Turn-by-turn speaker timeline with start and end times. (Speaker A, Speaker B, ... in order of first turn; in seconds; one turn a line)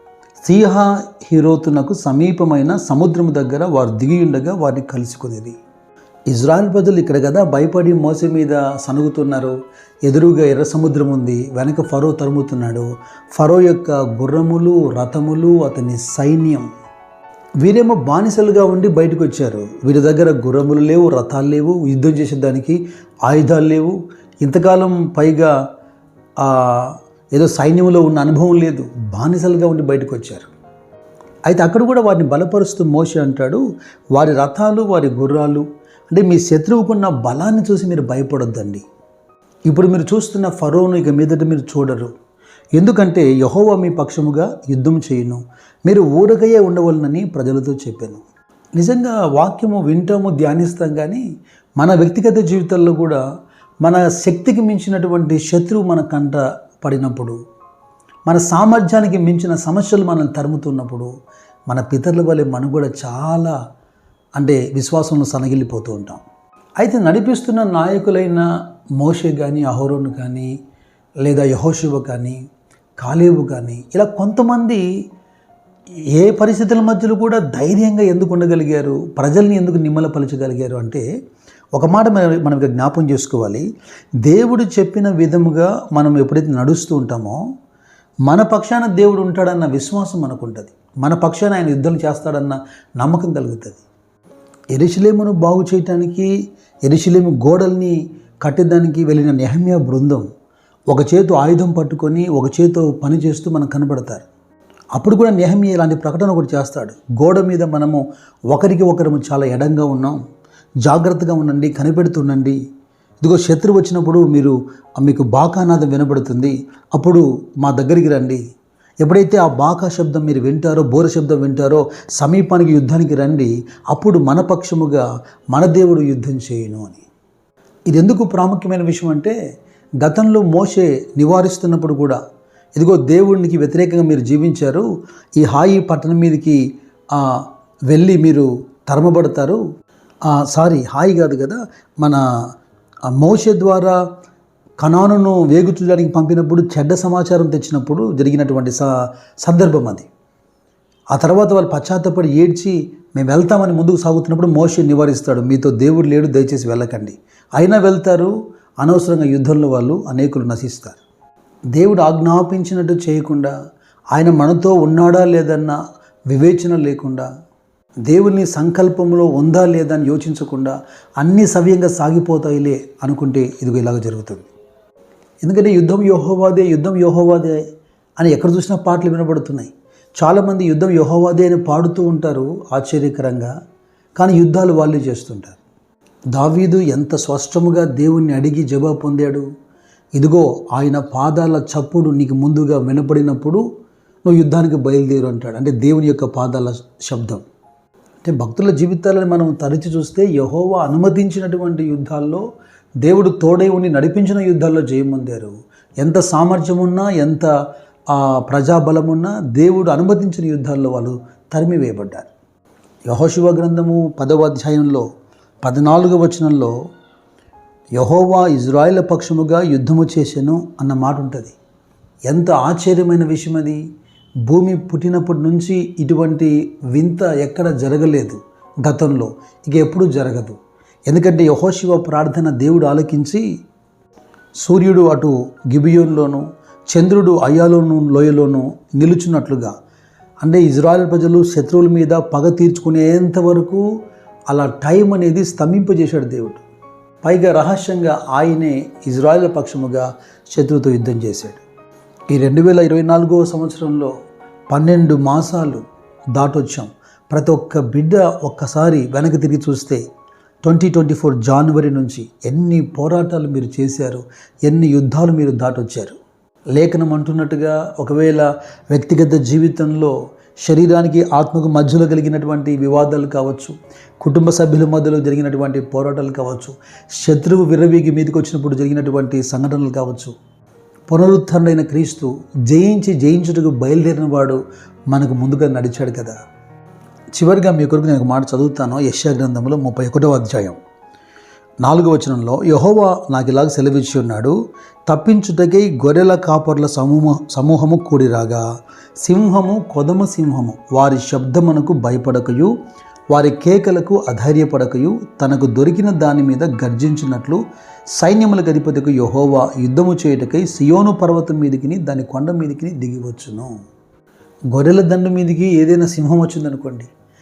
Speaker A: 0.4-5.6
Speaker A: 6.3-16.7
Speaker A: 17.6-25.5
Speaker A: 26.4-30.5
Speaker A: 31.4-33.6
Speaker A: 34.1-38.9
Speaker A: 39.7-42.1
Speaker A: 42.7-48.2
Speaker A: 48.8-51.2
Speaker A: 51.8-53.2
Speaker A: 53.8-57.4
Speaker A: 58.2-61.1
Speaker A: 61.7-63.5
Speaker A: 64.3-66.2
Speaker A: 66.8-68.5
Speaker A: 69.0-70.5
Speaker A: 71.2-72.4
Speaker A: 73.0-74.8
Speaker A: 76.2-81.0
Speaker A: 81.8-83.6
Speaker A: 84.2-87.4
Speaker A: 88.2-93.8
Speaker A: 94.7-96.3
Speaker A: 96.8-100.2
Speaker A: 100.9-104.2
Speaker A: 105.0-110.2
Speaker A: 110.8-112.6
Speaker A: 113.2-118.4
Speaker A: 119.0-127.0
Speaker A: 127.9-129.3
Speaker A: 130.0-132.2
Speaker A: 132.8-136.6
Speaker A: 137.1-139.6
Speaker A: 140.3-142.2
Speaker A: 143.2-144.0
Speaker A: 144.8-148.9
Speaker A: 149.4-150.1
Speaker A: 151.1-161.0
Speaker A: 161.8-163.5
Speaker A: 164.1-165.8
Speaker A: 166.3-167.3
Speaker A: 168.1-174.5
Speaker A: 175.4-177.6
Speaker A: 178.2-183.5
Speaker A: 184.2-185.6
Speaker A: 186.3-189.4
Speaker A: 190.2-193.6
Speaker A: 194.2-197.4
Speaker A: 198.2-202.4
Speaker A: 203.0-207.5
Speaker A: 208.1-212.3
Speaker A: 213.1-215.1
Speaker A: 215.6-216.7
Speaker A: 217.9-221.6
Speaker A: 222.3-223.8
Speaker A: 224.4-233.4
Speaker A: 234.6-239.7
Speaker A: 240.4-243.8
Speaker A: 244.5-246.6
Speaker A: 247.2-251.6
Speaker A: 252.3-254.1
Speaker A: 254.7-255.8
Speaker A: 256.3-260.0
Speaker A: 260.6-266.2
Speaker A: 266.7-270.1
Speaker A: 270.6-280.3
Speaker A: 281.1-286.4
Speaker A: 287.3-290.8
Speaker A: 291.8-294.6
Speaker A: 295.1-298.6
Speaker A: 299.2-302.7
Speaker A: 303.3-307.6
Speaker A: 308.1-313.7
Speaker A: 314.7-317.1